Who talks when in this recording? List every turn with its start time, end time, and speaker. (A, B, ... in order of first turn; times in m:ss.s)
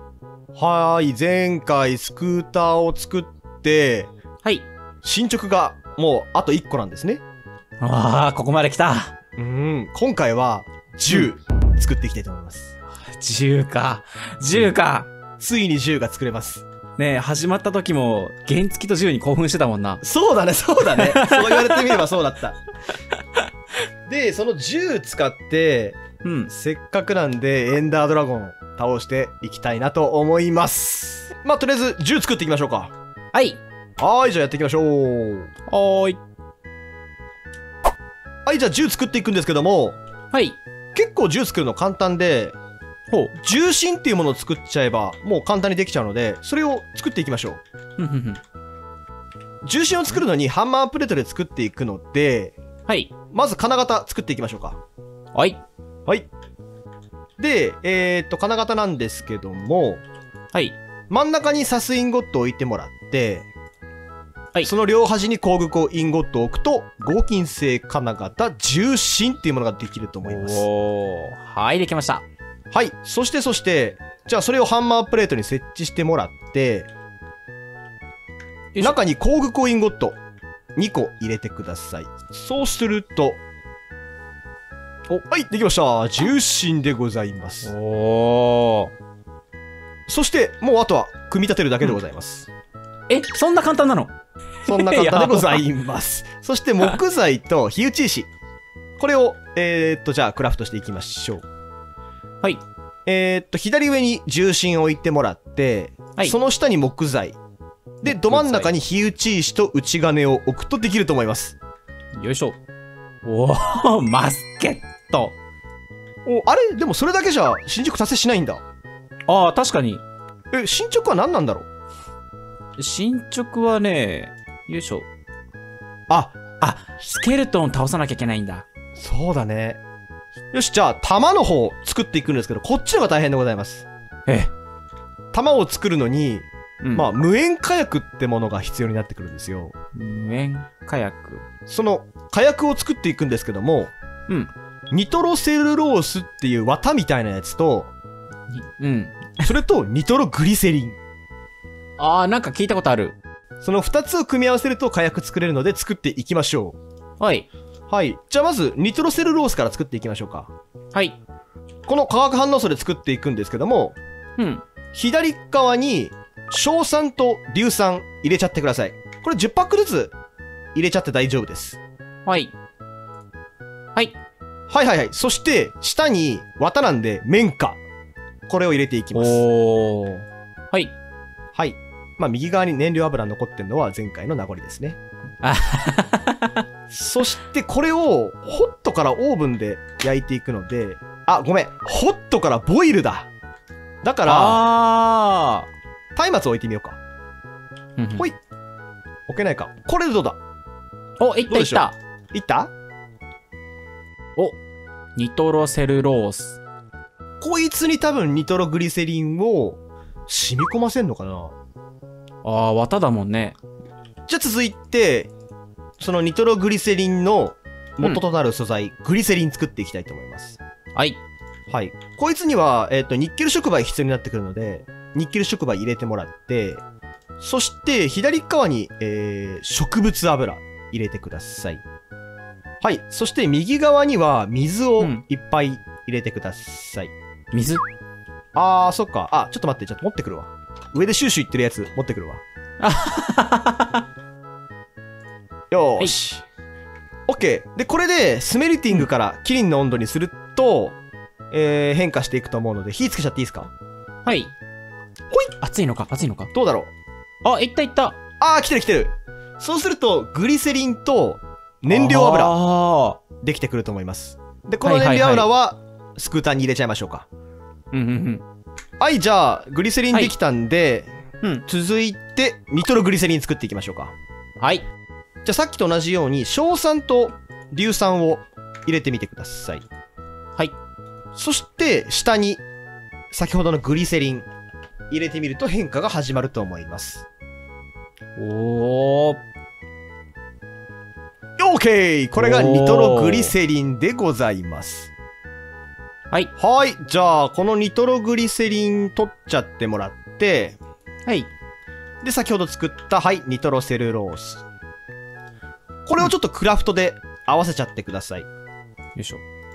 0:00.6-0:04.1 A
0:04.4-0:04.7 B
0:05.0-0:07.2 A
0:07.8-0:09.1 B
0:09.4-0:12.7 A
0:13.0-0:15.1 B
0:15.4-0:16.6 A
0:17.0-0:20.0 B
0:20.0-0:22.6 A
0:21.0-0:22.0 B
0:24.1-0:32.9 A
0:26.2-0:26.5 B
0:33.3-0:33.6 B
0:34.0-0:35.5 A
0:35.7-0:36.2 B
0:38.5-0:40.0 A
0:40.3-0:40.6 B
0:41.0-0:42.6 A
0:43.1-0:43.4 B
0:43.4-0:47.6 A
0:48.0-0:48.4 B
0:49.6-0:52.6 A
0:53.3-0:54.8 A
0:55.4-0:55.6 B
0:57.4-1:00.0 A
1:01.1-1:03.5 A
1:04.6-1:10.7 A
1:10.2-1:12.2 B
1:12.7-1:16.9 A
1:18.7-1:19.0 B
1:18.8-1:20.2 A
1:20.8-1:23.4 A
1:25.3-1:27.7 A
1:27.6-1:28.9 B
1:30.1-1:32.5 A
1:33.1-1:34.1 B
1:34.6-1:35.6 B
1:34.7-1:38.3 A
1:39.0-1:41.4 A
1:43.1-1:47.4 A
1:48.0-1:48.7 B
1:48.0-1:51.6 A
1:52.2-1:52.6 B
1:53.2-1:55.3 B
1:56.3-1:58.6 A
1:59.3-2:00.0 B
2:00.5-2:01.7 A
2:02.8-2:05.1 B
2:06.1-2:06.4 A
2:06.6-2:08.6 B
2:09.0-2:09.8 A
2:10.5-2:13.9 A
2:14.3-2:14.5 B
2:15.3-2:19.7 A
2:16.8-2:17.1 B
2:20.0-2:21.4 B
2:21.7-2:23.9 A
2:24.9-2:27.9 A
2:28.5-2:29.5 B
2:29.4-2:31.0 A
2:32.0-2:33.2 B
2:33.6-2:36.8 A
2:37.2-2:37.5 B
2:37.9-2:40.5 A
2:40.9-2:41.2 B
2:41.9-2:44.0 A
2:44.4-2:44.6 B
2:44.9-2:50.2 A
2:50.7-2:51.8 A
2:52.3-2:52.5 B
2:54.7-2:57.8 A
2:58.5-2:59.4 A
2:59.2-3:00.9 B
3:01.5-3:05.0 A
3:05.4-3:06.6 B
3:06.9-3:13.3 A
3:14.0-3:14.6 A
3:14.3-3:15.7 B
3:16.2-3:17.0 A
3:18.0-3:18.3 B
3:19.3-3:20.4 A
3:21.2-3:22.0 B
3:21.5-3:22.7 A
3:25.2-3:26.6 B
3:27.4-3:31.6 A
3:32.4-3:33.6 B
3:34.3-3:35.3 A
3:36.0-3:40.6 A
3:41.7-3:46.8 A
3:47.4-3:51.8 A
3:52.8-3:57.1 A
3:57.5-3:57.8 B
3:58.6-4:02.4 A
4:02.8-4:04.0 B
4:05.7-4:06.4 A
4:07.3-4:11.0 A
4:11.5-4:13.7 A
4:14.2-4:14.6 B
4:15.5-4:16.5 B
4:16.5-4:16.9 A
4:17.4-4:18.2 B
4:18.4-4:22.6 A
4:21.9-4:23.2 B
4:23.4-4:27.3 A
4:24.8-4:25.5 B
4:27.9-4:28.4 B
4:29.0-4:31.1 A
4:31.6-4:34.1 A
4:34.6-4:34.8 B
4:35.4-4:39.9 A
4:41.4-4:42.6 A
4:43.3-4:44.5 A
4:45.1-4:47.3 A
4:48.4-4:49.4 B
4:51.6-4:55.1 A
4:52.4-4:53.5 B
4:56.6-5:00.8 A
5:02.2-5:04.6 A
5:06.1-5:08.5 A
5:09.2-5:09.4 B